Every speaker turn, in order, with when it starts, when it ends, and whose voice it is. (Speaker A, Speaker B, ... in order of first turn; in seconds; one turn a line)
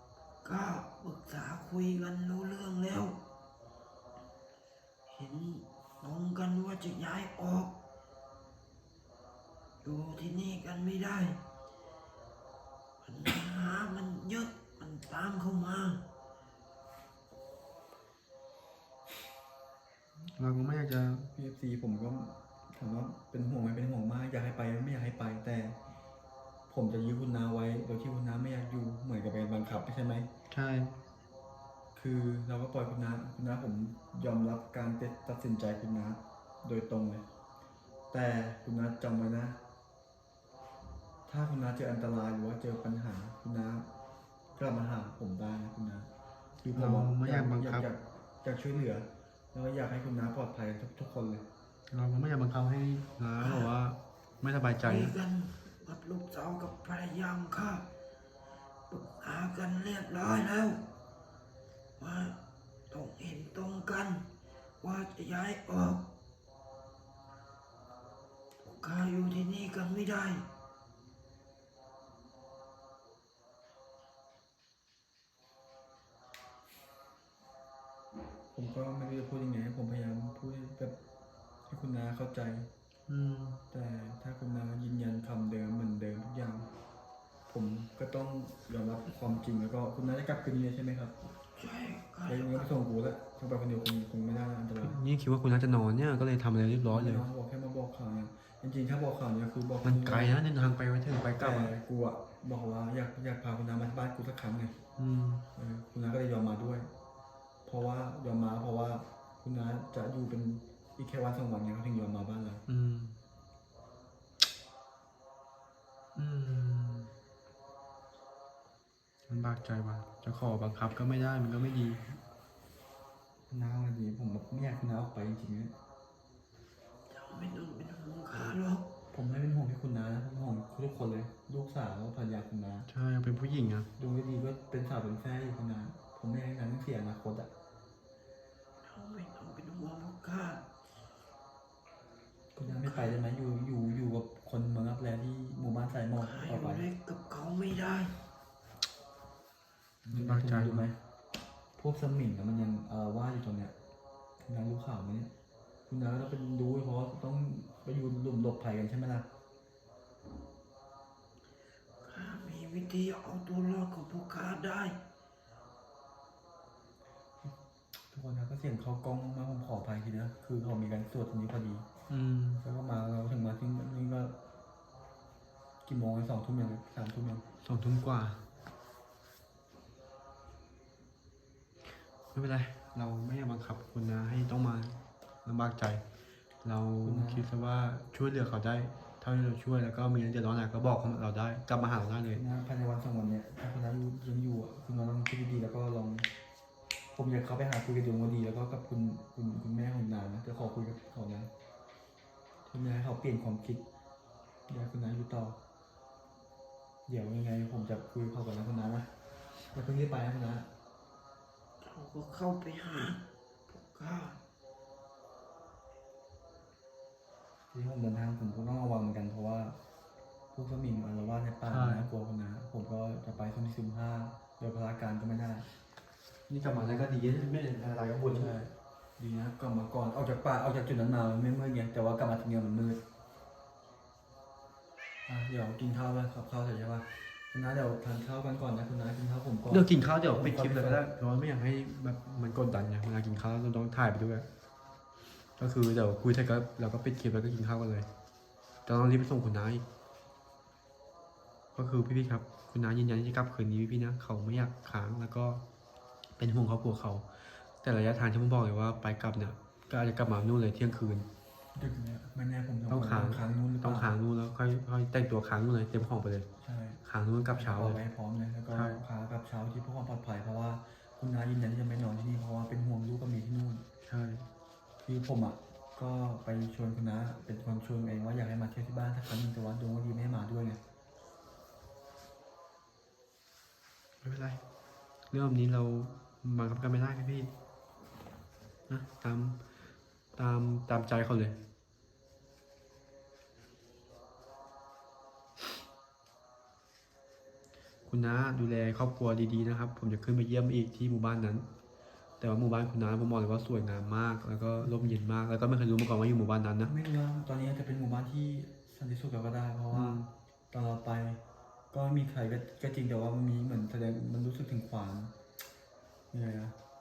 Speaker A: 0.4-3.2
Speaker A: 5.1-7.7
Speaker A: 9.8-11.4
Speaker A: 13.0-16.0
Speaker B: 20.3-21.3
Speaker C: 21.3-25.8
Speaker C: 26.7-30.3
Speaker B: 30.5-31.0
Speaker C: 31.9-37.2
Speaker C: 38.1-39.6
Speaker C: 41.3-43.9
Speaker C: 44.6-46.1
Speaker C: 46.6-51.5
Speaker B: 46.7-47.9
Speaker B: 51.9-55.2
Speaker A: 53.4-53.7
Speaker A: 54.8-57.9
Speaker A: 58.9-60.9
Speaker A: 62.0-62.4
Speaker A: 62.9-64.3
Speaker A: 64.8-66.0
Speaker A: 68.8-70.5
Speaker C: 78.5-81.0
Speaker C: 81.7-82.7
Speaker B: 83.1-83.6
Speaker C: 83.7-86.7
Speaker C: 87.5-91.1
Speaker A: 91.6-92.7
Speaker C: 92.3-95.0
Speaker B: 94.8-97.3
Speaker C: 96.9-100.4
Speaker B: 99.8-101.8
Speaker C: 101.3-104.8
Speaker B: 105.0-105.4
Speaker C: 105.5-106.9
Speaker C: 107.7-112.6
Speaker B: 112.7-113.2
Speaker B: 116.2-117.1
Speaker B: 119.3-122.2
Speaker C: 123.5-125.7
Speaker A: 127.1-128.9
Speaker C: 129.1-132.9
Speaker B: 132.9-133.9
Speaker C: 134.0-137.5
Speaker A: 138.8-140.6
Speaker C: 142.6-146.9
Speaker A: 142.7-143.2
Speaker A: 146.2-148.2
Speaker B: 150.1-150.9
Speaker C: 150.1-151.0
Speaker C: 151.8-153.7
Speaker C: 154.4-155.3
Speaker C: 155.9-159.3
Speaker A: 162.0-165.0
Speaker C: 168.1-171.9
Speaker B: 172.1-172.6
Speaker C: 172.6-174.4
Speaker C: 175.8-177.4
Speaker B: 177.7-178.4
Speaker B: 182.3-186.0
Speaker B: 186.6-192.4
Speaker C: 187.0-187.4
Speaker C: 192.3-196.3
Speaker C: 197.1-201.5
Speaker C: 202.7-203.8
Speaker C: 204.7-205.6
Speaker C: 207.1-209.1
Speaker C: 209.7-210.7
Speaker A: 211.8-214.4
Speaker C: 217.7-219.8
Speaker C: 220.5-225.7
Speaker B: 221.7-222.1
Speaker B: 226.5-228.5
Speaker C: 228.3-233.0
Speaker C: 235.3-241.0
Speaker B: 239.7-244.5
Speaker B: 245.6-248.1
Speaker B: 248.9-249.8
Speaker B: 251.8-255.6
Speaker B: 256.4-257.2
Speaker B: 257.8-261.3
Speaker C: 261.8-264.1
Speaker B: 262.9-266.5
Speaker C: 266.6-267.0
Speaker B: 267.1-268.0
Speaker C: 267.5-273.8
Speaker B: 268.7-269.0
Speaker B: 274.1-274.5
Speaker C: 275.0-280.8
Speaker B: 284.2-284.6
Speaker B: 285.3-287.5
Speaker B: 288.9-289.6
Speaker B: 290.4-291.6
Speaker B: 298.1-301.6
Speaker B: 302.4-306.9
Speaker C: 304.8-305.2
Speaker C: 306.9-310.2
Speaker B: 309.9-310.3
Speaker C: 310.7-311.4
Speaker C: 311.9-315.3
Speaker C: 316.3-316.8